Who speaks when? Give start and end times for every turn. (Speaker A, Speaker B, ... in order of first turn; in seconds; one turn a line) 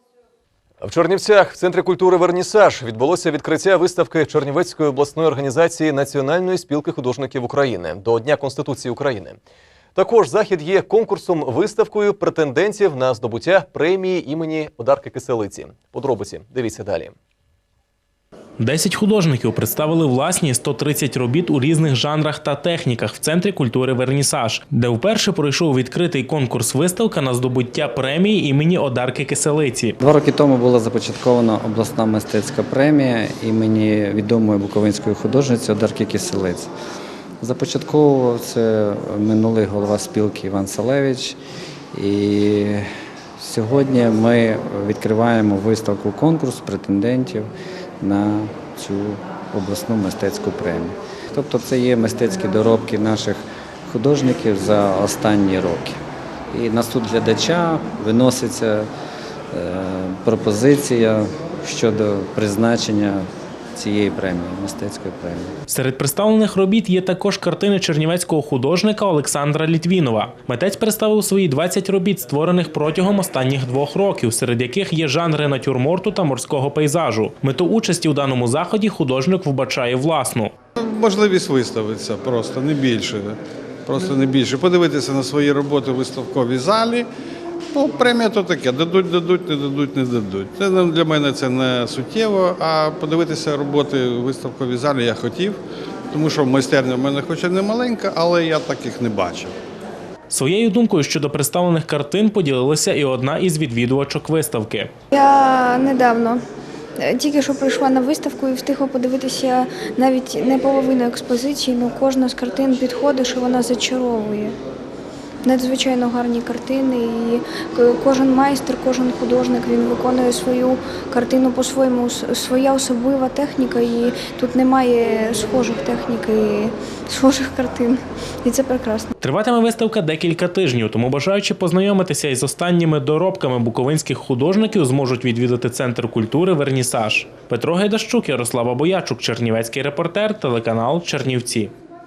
Speaker A: 0.8-9.4
Speaker A: 9.9-17.1
Speaker B: 18.6-29.9
Speaker C: 30.0-36.7
Speaker C: 37.4-41.4
Speaker C: 41.9-42.9
Speaker C: 43.4-58.9
Speaker C: 59.5-65.5
Speaker B: 65.7-80.5
Speaker D: 80.8-87.1
Speaker D: 87.7-95.6
Speaker D: 96.1-99.5
Speaker B: 100.3-104.9
Speaker E: 105.1-106.4
Speaker E: 107.0-114.6
Speaker E: 115.4-129.1
Speaker B: 129.2-141.7